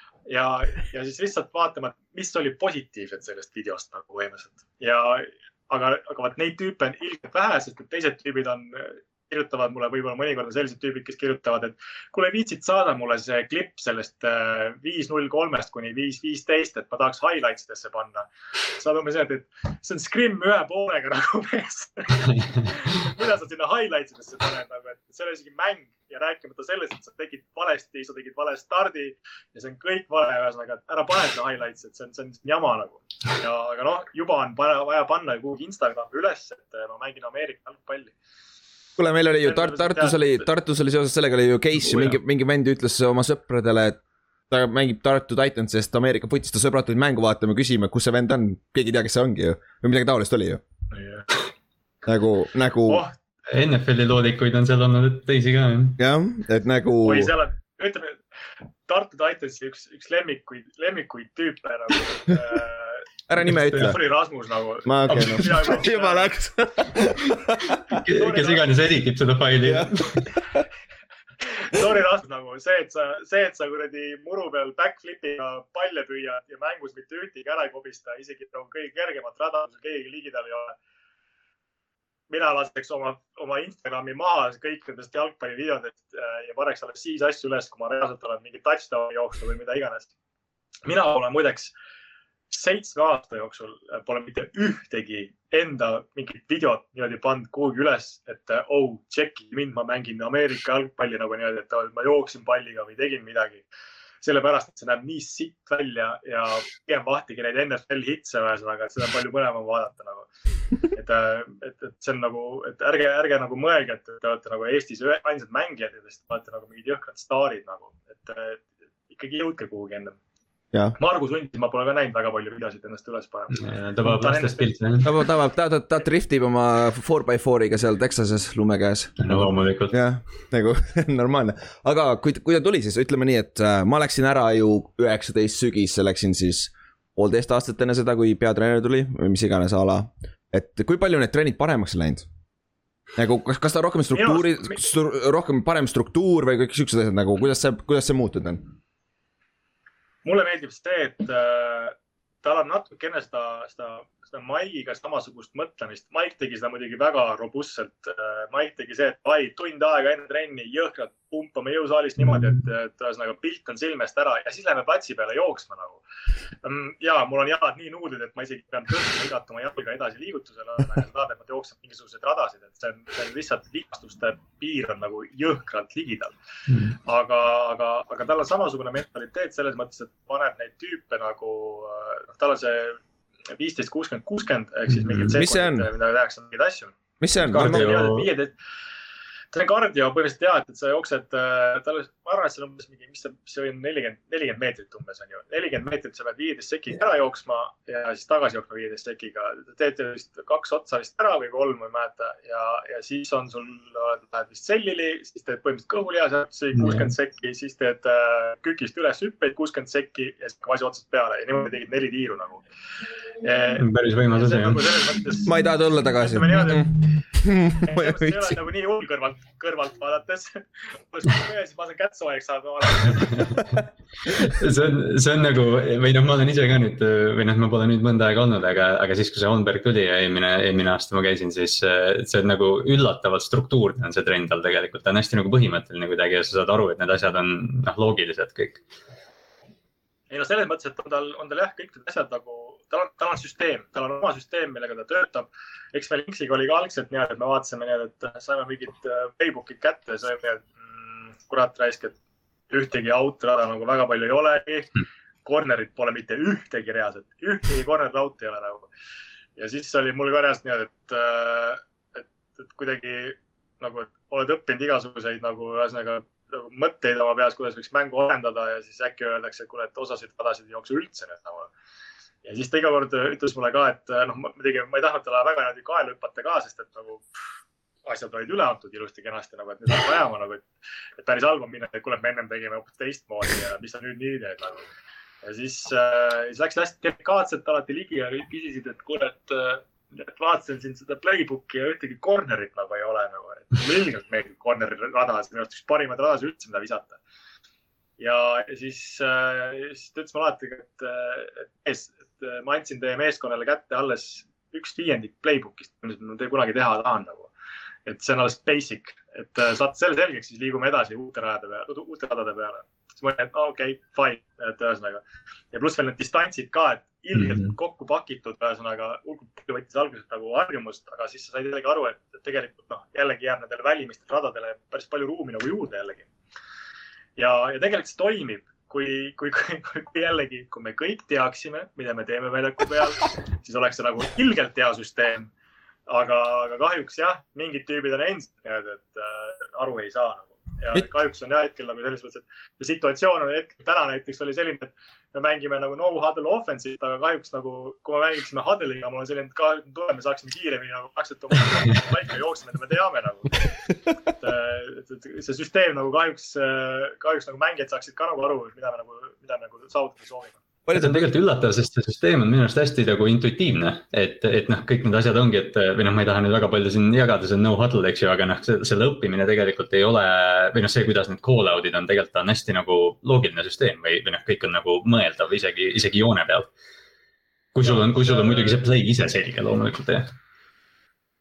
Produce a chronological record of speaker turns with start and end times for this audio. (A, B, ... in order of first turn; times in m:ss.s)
0:00.3-0:38.1 A
0:39.0-0:44.0 B
0:39.4-0:40.4 A
0:44.5-0:50.6 B
0:50.9-0:51.3 A
0:52.1-0:53.0 B
0:53.5-0:56.0 C
0:56.0-0:57.3 B
0:57.0-0:58.2 A
0:58.9-1:03.1 A
1:03.3-1:04.0 B
1:03.7-1:06.3 A
1:04.8-1:07.9 B
1:05.1-1:05.8 C
1:08.0-1:10.2 C
1:08.1-1:08.7 A
1:09.6-1:10.6 B
1:11.4-1:20.8 A
1:22.3-1:30.1 A
1:30.8-1:31.7 A
1:32.5-1:43.6 A
1:44.2-1:50.3 A
1:50.8-2:00.2 A
2:01.0-2:04.7 A
2:03.5-2:05.1 C
2:05.0-2:22.3 B
2:09.2-2:10.0 C
2:23.2-2:28.6 B
2:24.2-2:24.8 A
2:30.2-2:46.0 A
2:46.6-2:56.3 A
2:56.7-2:57.0 C
2:57.0-3:03.0 A
3:03.5-3:08.5 A
3:04.9-3:05.4 C
3:05.3-3:05.9 B
3:07.2-3:07.9 B
3:07.5-3:08.3 C
3:09.5-3:32.6 A
3:26.8-3:27.1 C
3:33.4-3:35.6 A
3:33.8-3:35.4 C
3:35.4-3:38.5 B
3:36.1-3:36.9 A
3:37.7-3:43.7 A
3:43.1-3:43.7 C
3:44.4-3:58.8 C
4:00.3-4:12.2 A
4:12.7-4:18.9 A
4:19.6-4:31.7 A
4:32.4-4:37.3 A
4:38.0-4:40.7 A
4:41.2-4:44.9 A
4:45.4-4:57.2 A
4:58.2-5:07.5 A
5:08.1-5:26.3 A
5:17.4-5:17.7 C
5:27.4-5:35.5 A
5:36.1-5:53.7 A
5:54.4-6:00.6 A
6:00.9-6:01.2 B
6:00.9-6:16.7 C
6:17.7-6:20.3 C
6:17.8-6:18.8 A